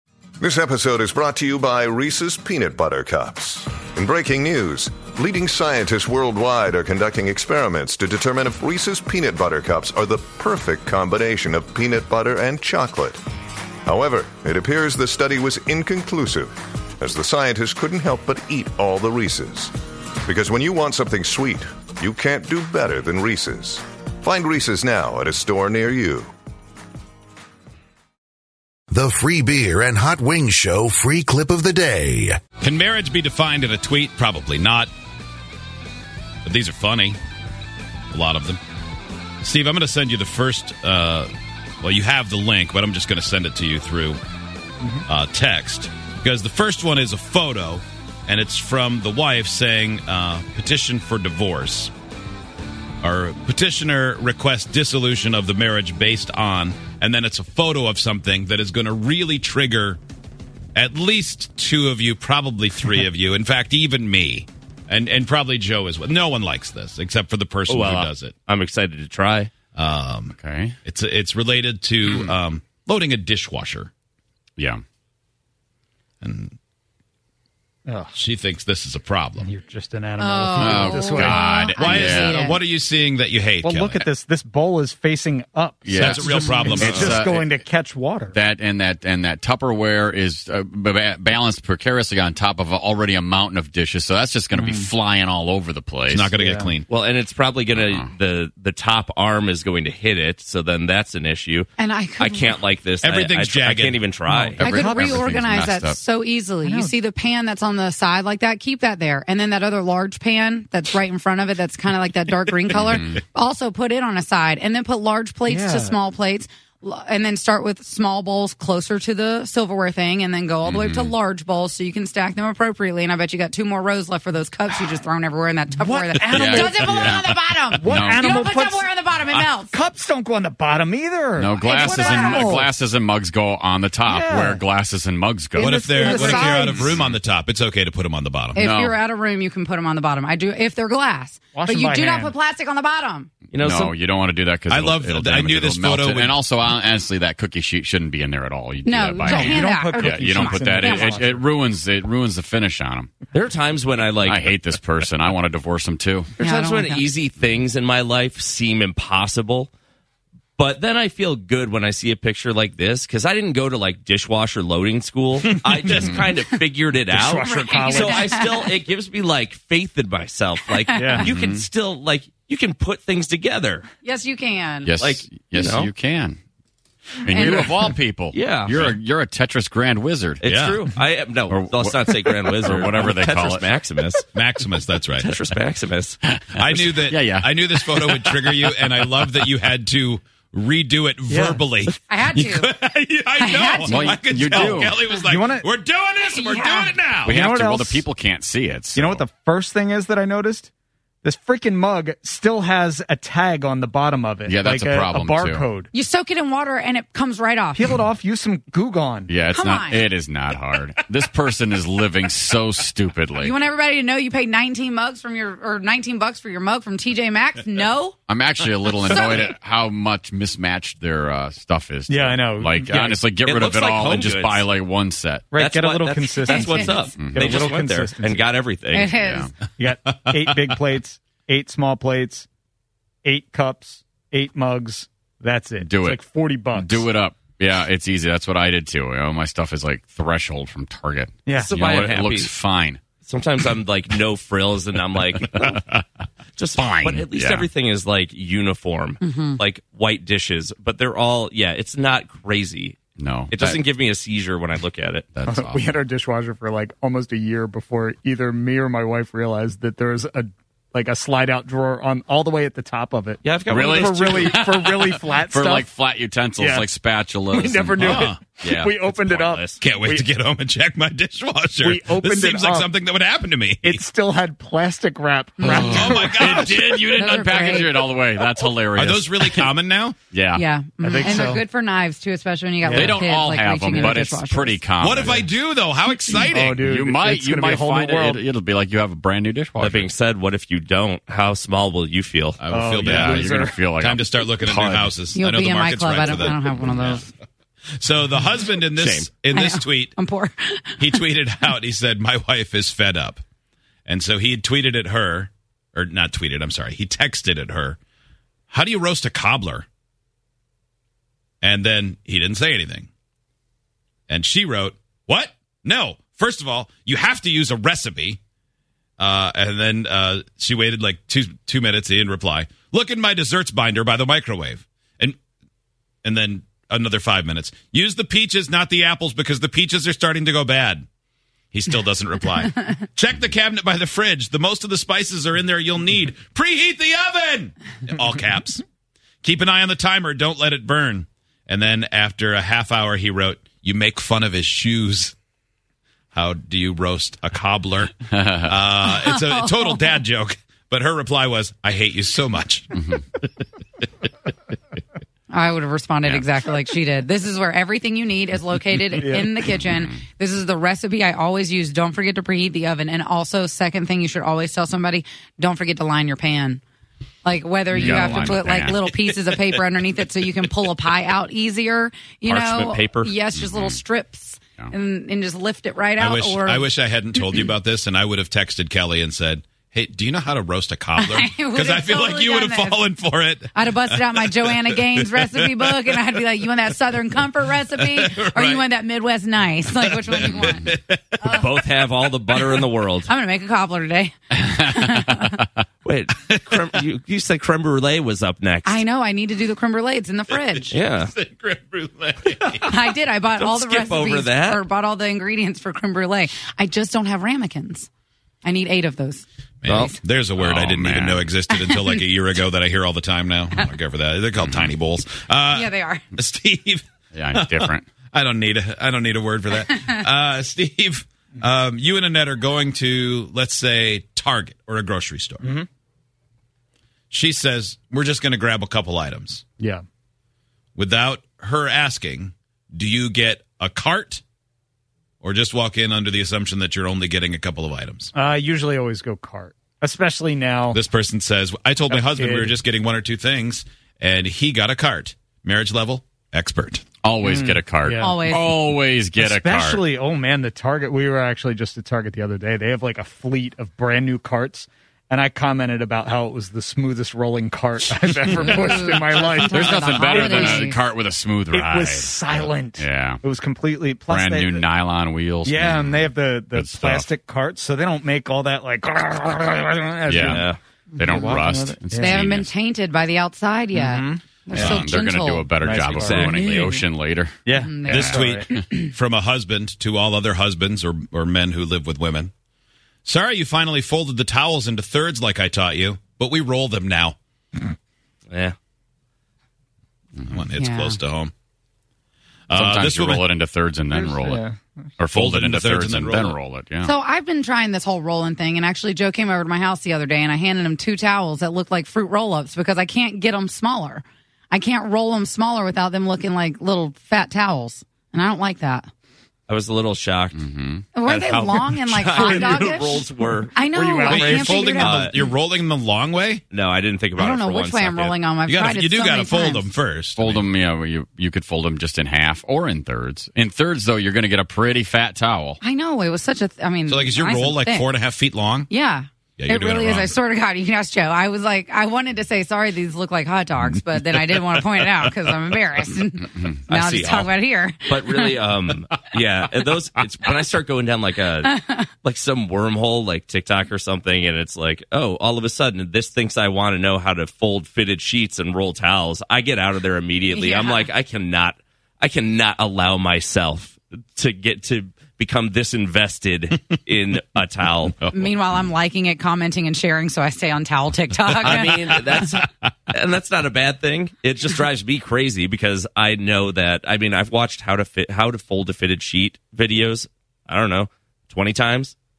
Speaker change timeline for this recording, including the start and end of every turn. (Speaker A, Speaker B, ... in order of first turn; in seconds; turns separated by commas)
Speaker A: 0.4-13.2, Speaker A: 13.9-19.7, Speaker A: 20.2-26.3, Speaker B: 28.9-32.4, Speaker C: 32.6-34.9, Speaker C: 36.5-37.2, Speaker C: 38.1-38.6, Speaker C: 39.4-41.3, Speaker C: 41.8-44.2, Speaker C: 45.1-51.9, Speaker C: 53.0-60.0, Speaker C: 60.8-68.3, Speaker D: 67.7-69.5, Speaker C: 69.8-73.9, Speaker E: 70.4-70.8, Speaker E: 72.0-72.4, Speaker C: 76.2-76.6, Speaker F: 77.9-78.1, Speaker C: 78.2-79.5, Speaker F: 79.4-81.4, Speaker G: 80.2-82.6, Speaker E: 80.6-82.4, Speaker C: 81.7-84.1, Speaker F: 83.6-88.4, Speaker E: 85.8-87.5, Speaker C: 86.0-87.4, Speaker E: 88.3-96.3, Speaker F: 94.6-94.9, Speaker C: 96.1-96.9, Speaker F: 96.4-96.7, Speaker D: 96.9-101.7, Speaker E: 97.8-98.0, Speaker G: 101.8-102.6, Speaker D: 102.2-104.7, Speaker C: 103.0-104.0, Speaker F: 104.3-105.3, Speaker E: 104.6-106.0, Speaker G: 104.6-129.7, Speaker F: 106.6-106.9, Speaker F: 115.5-116.0, Speaker E: 120.7-121.1, Speaker F: 125.8-127.2, Speaker E: 126.3-127.2, Speaker F: 127.8-128.9, Speaker E: 127.9-128.5, Speaker F: 129.7-132.7, Speaker E: 131.4-135.7, Speaker G: 131.6-132.6, Speaker F: 134.1-134.6, Speaker F: 135.5-136.9, Speaker C: 135.7-138.6, Speaker G: 135.9-136.8, Speaker E: 136.8-137.1, Speaker G: 138.6-143.3, Speaker E: 138.6-139.0, Speaker F: 141.5-142.3, Speaker D: 143.5-143.9, Speaker E: 143.6-153.1, Speaker C: 144.7-146.4, Speaker G: 148.8-151.2, Speaker F: 149.2-151.4, Speaker D: 153.3-154.6, Speaker E: 154.2-156.3, Speaker G: 156.4-157.0, Speaker D: 156.4-159.7, Speaker D: 160.6-173.9, Speaker F: 165.4-166.1, Speaker F: 167.1-168.5, Speaker G: 167.5-168.7, Speaker G: 170.9-171.2, Speaker F: 170.9-171.3, Speaker E: 171.2-171.7, Speaker G: 174.0-174.9, Speaker E: 174.8-176.4, Speaker D: 175.0-175.9, Speaker E: 177.2-180.5, Speaker G: 177.3-177.9, Speaker D: 177.4-177.6, Speaker D: 178.3-178.9, Speaker D: 180.4-184.2, Speaker C: 180.4-180.9, Speaker E: 181.5-183.7, Speaker C: 184.3-185.4, Speaker D: 185.2-186.2, Speaker E: 186.2-189.5, Speaker C: 186.5-197.4, Speaker F: 191.3-191.7, Speaker G: 192.1-192.7, Speaker G: 193.4-194.2, Speaker E: 193.8-195.0, Speaker F: 194.5-195.7, Speaker G: 196.2-196.9, Speaker E: 197.2-199.2, Speaker F: 197.3-198.1, Speaker F: 198.9-200.7, Speaker F: 201.2-205.9, Speaker E: 204.5-205.7, Speaker G: 205.9-207.9, Speaker F: 207.8-209.3, Speaker E: 209.3-213.5, Speaker G: 209.5-210.1, Speaker G: 213.4-218.2, Speaker E: 218.3-225.5, Speaker G: 219.1-219.4, Speaker F: 222.1-223.2, Speaker D: 223.4-224.7, Speaker F: 225.5-228.5, Speaker D: 225.6-229.1, Speaker G: 226.5-227.1, Speaker E: 227.2-227.5, Speaker G: 228.9-229.5, Speaker E: 229.1-229.6, Speaker F: 229.8-232.5, Speaker C: 230.1-230.8, Speaker F: 233.2-237.1, Speaker E: 235.8-243.0, Speaker F: 241.5-241.8, Speaker D: 241.6-242.5, Speaker D: 243.2-245.8, Speaker D: 246.6-253.0, Speaker E: 246.8-247.7, Speaker G: 249.2-249.6, Speaker E: 253.2-253.8, Speaker D: 253.5-255.3, Speaker E: 255.3-256.0, Speaker F: 255.5-265.9, Speaker D: 263.4-264.9, Speaker E: 263.7-269.0, Speaker F: 266.6-266.9, Speaker F: 267.5-270.3, Speaker C: 268.1-268.4, Speaker D: 269.1-269.8, Speaker C: 269.7-274.0, Speaker F: 271.8-272.9, Speaker F: 273.8-277.1, Speaker G: 275.6-276.0, Speaker E: 275.6-279.7, Speaker C: 276.0-276.9, Speaker G: 277.1-278.0, Speaker C: 278.9-280.2, Speaker E: 280.3-280.6, Speaker G: 280.5-284.8, Speaker F: 281.0-281.6, Speaker F: 282.8-283.2, Speaker E: 282.9-285.5, Speaker F: 283.9-284.2, Speaker C: 285.0-286.9, Speaker F: 286.5-288.4, Speaker E: 286.9-290.1, Speaker D: 289.8-292.6, Speaker C: 292.6-293.2, Speaker F: 292.7-293.9, Speaker E: 293.0-295.1, Speaker C: 294.0-297.3, Speaker G: 295.3-297.3, Speaker C: 298.0-300.2, Speaker D: 298.9-299.3, Speaker G: 299.5-301.2, Speaker C: 301.0-303.4, Speaker C: 304.1-308.0, Speaker C: 308.7-309.9, Speaker C: 311.6-313.1, Speaker C: 314.3-318.4, Speaker C: 319.2-325.4, Speaker C: 326.2-331.1, Speaker C: 331.7-338.8, Speaker C: 339.4-345.4, Speaker C: 346.3-353.4, Speaker E: 348.3-348.7, Speaker G: 349.0-350.2, Speaker E: 352.9-353.2, Speaker G: 355.5-366.8, Speaker F: 359.2-359.6, Speaker E: 359.8-360.2, Speaker G: 367.4-376.9, Speaker E: 367.9-369.0, Speaker D: 372.5-373.3, Speaker E: 373.5-374.0, Speaker C: 376.2-386.2, Speaker G: 381.2-383.0, Speaker G: 383.7-390.9, Speaker C: 387.9-388.8, Speaker C: 389.9-391.7, Speaker D: 391.4-393.3, Speaker G: 393.3-395.7, Speaker D: 396.1-399.0, Speaker C: 396.5-396.8, Speaker G: 398.9-400.9, Speaker C: 400.5-402.9, Speaker D: 400.9-401.3, Speaker G: 402.9-408.1, Speaker D: 403.6-404.8, Speaker G: 408.6-409.4, Speaker C: 409.8-425.8, Speaker D: 409.9-410.2, Speaker E: 410.6-411.5, Speaker G: 411.7-412.2, Speaker E: 414.6-414.9, Speaker G: 415.7-416.2, Speaker E: 417.3-418.1, Speaker G: 419.8-420.2, Speaker C: 427.3-429.6, Speaker C: 431.0-434.4, Speaker C: 435.4-438.3, Speaker F: 438.4-441.0, Speaker C: 440.9-447.1, Speaker F: 442.1-442.8, Speaker E: 447.2-450.1, Speaker F: 447.4-448.4, Speaker G: 448.2-448.8, Speaker F: 449.4-460.9, Speaker E: 458.4-459.0, Speaker G: 458.5-461.0, Speaker E: 459.7-463.4, Speaker F: 461.7-464.9, Speaker E: 464.3-467.3, Speaker F: 465.6-472.4, Speaker E: 470.3-470.6, Speaker D: 470.4-470.8, Speaker E: 471.2-472.7, Speaker G: 472.2-475.7, Speaker F: 473.9-474.4, Speaker E: 474.7-477.6, Speaker F: 475.8-476.6, Speaker D: 475.9-477.0, Speaker G: 476.6-477.0, Speaker F: 477.6-478.7, Speaker G: 477.8-479.1, Speaker C: 478.1-482.5, Speaker C: 483.2-487.4, Speaker D: 488.5-488.8, Speaker C: 490.4-491.5, Speaker G: 490.7-491.2, Speaker C: 492.7-493.5, Speaker E: 492.7-494.6, Speaker F: 494.1-494.9, Speaker E: 495.2-497.1, Speaker C: 495.2-496.6, Speaker G: 497.0-509.1, Speaker D: 509.7-510.6, Speaker E: 510.5-511.1, Speaker G: 511.1-515.4, Speaker D: 511.2-513.7, Speaker F: 512.4-512.9, Speaker F: 513.9-514.8, Speaker C: 514.3-516.6, Speaker D: 514.9-515.4, Speaker D: 516.7-518.4, Speaker G: 517.4-519.9, Speaker C: 518.7-520.7, Speaker E: 520.4-525.8, Speaker G: 525.8-528.1, Speaker C: 527.1-528.9, Speaker G: 528.9-538.6, Speaker C: 529.6-530.4, Speaker D: 536.9-537.5, Speaker D: 538.0-558.1, Speaker G: 541.6-542.1, Speaker G: 550.5-551.1, Speaker C: 558.2-558.5, Speaker G: 558.3-561.8, Speaker D: 561.6-572.1, Speaker C: 561.7-562.5